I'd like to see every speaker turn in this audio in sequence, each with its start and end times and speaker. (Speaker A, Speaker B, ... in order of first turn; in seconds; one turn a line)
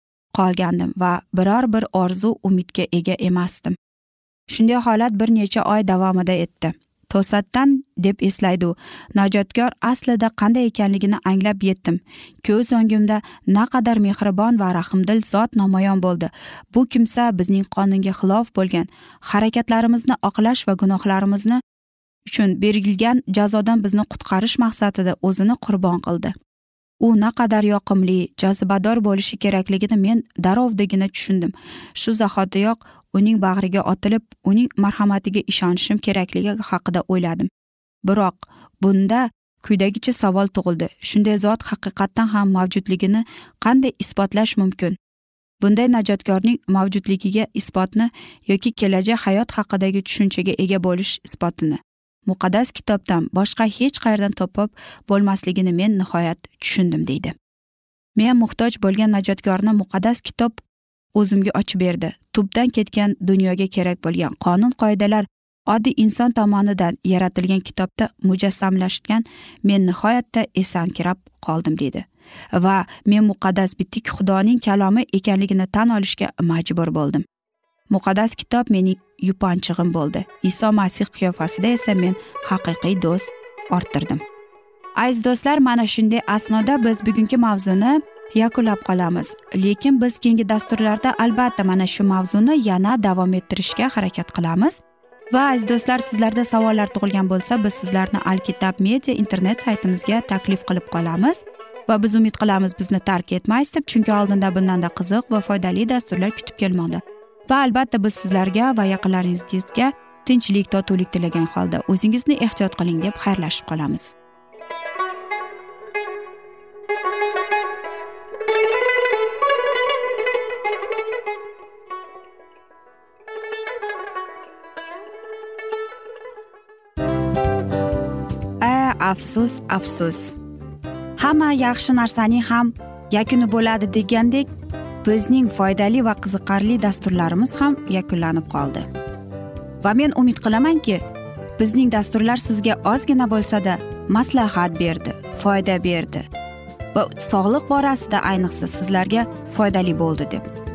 Speaker A: 0.3-3.8
Speaker A: 4.5-21.6
Speaker A: 22.3-26.3
Speaker A: 27.0-37.5
Speaker A: 38.1-45.0
Speaker A: 45.6-57.4
Speaker A: 58.2-60.6
Speaker A: 61.2-77.3
Speaker A: 77.9-84.2
Speaker A: 85.0-94.8
Speaker A: 95.3-114.1
Speaker A: 128.6-130.4
Speaker A: 131.2-134.5
Speaker A: 135.0-138.9
Speaker A: 139.8-141.0
Speaker A: 141.6-146.3
Speaker A: 146.9-150.5